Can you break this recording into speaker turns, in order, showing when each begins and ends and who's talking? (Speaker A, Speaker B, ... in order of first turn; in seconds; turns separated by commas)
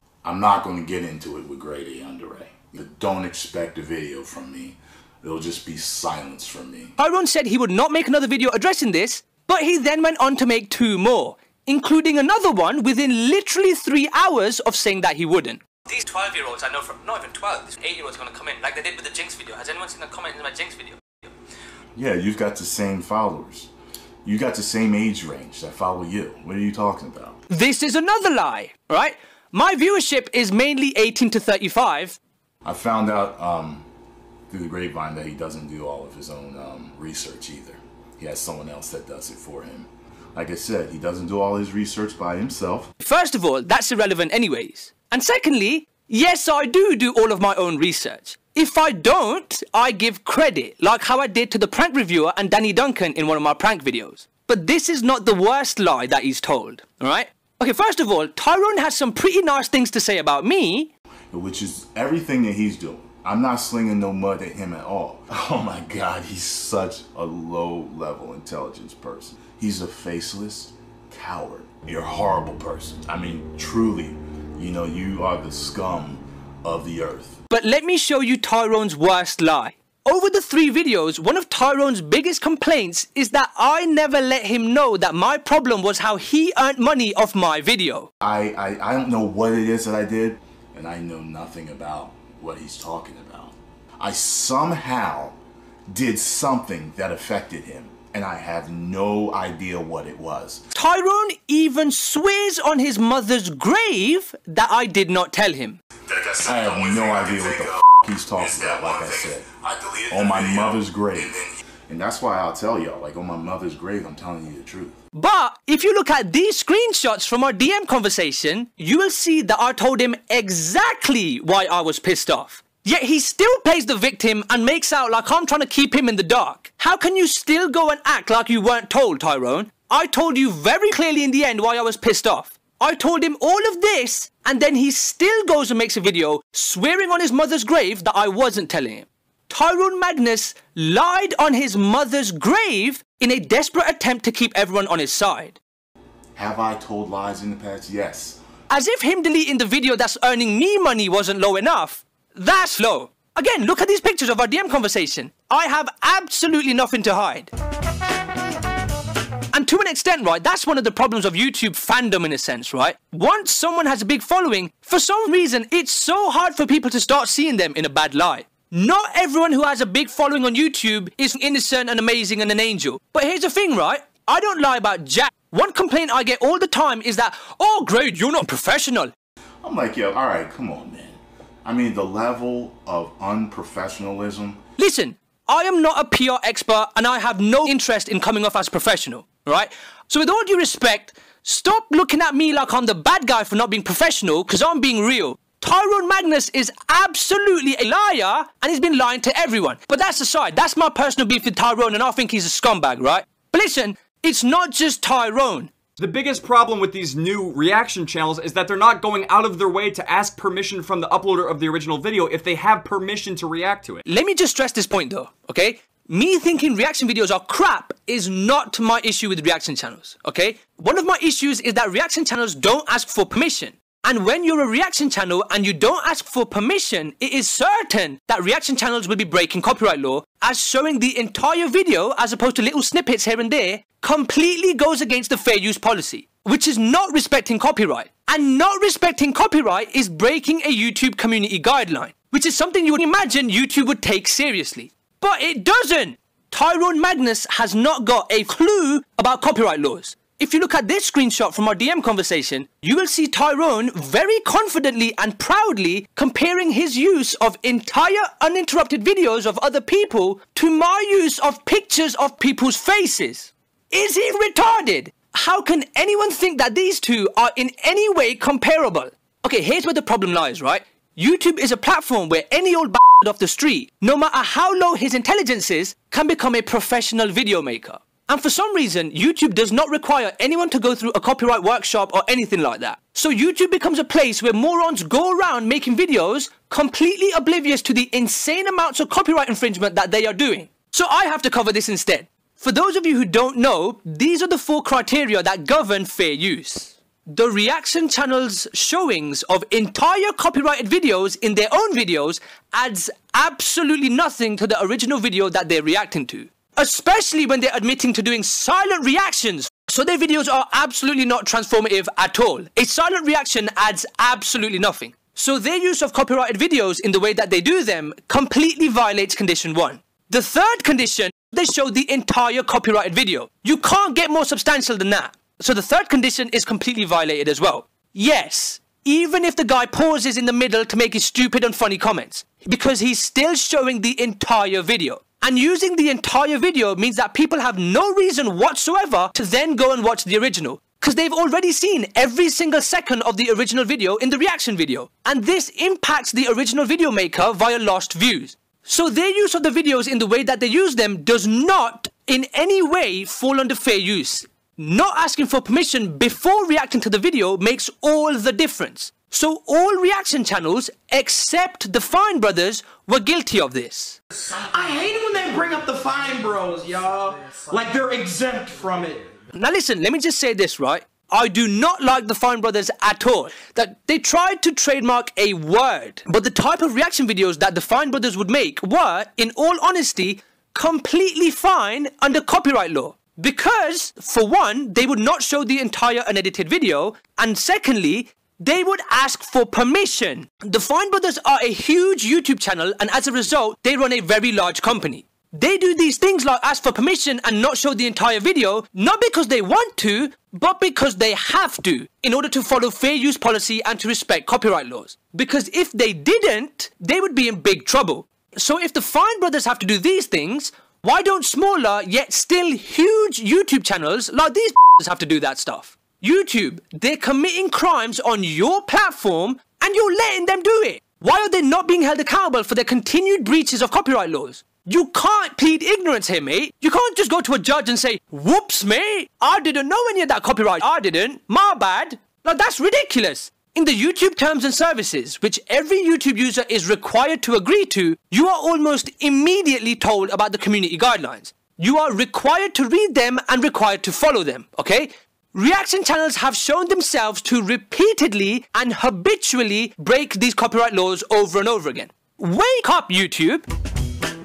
Speaker A: 0.2-7.0, Speaker B: 7.0-21.0, Speaker A: 21.9-23.7, Speaker A: 24.2-27.4, Speaker B: 27.5-32.2, Speaker A: 32.6-33.9, Speaker A: 34.5-42.9, Speaker B: 43.0-60.9, Speaker A: 61.3-77.4, Speaker B: 77.5-88.1, Speaker A: 88.2-95.4, Speaker A: 95.9-100.7, Speaker B: 100.7-105.8, Speaker A: 106.3-115.0, Speaker B: 115.1-145.6, Speaker A: 146.4-148.4, Speaker B: 148.7-157.5, Speaker B: 159.5-179.1, Speaker A: 179.6-184.6, Speaker B: 184.8-205.7, Speaker C: 206.0-214.0, Speaker B: 214.1-364.2, Speaker D: 364.4-369.3, Speaker B: 369.5-453.7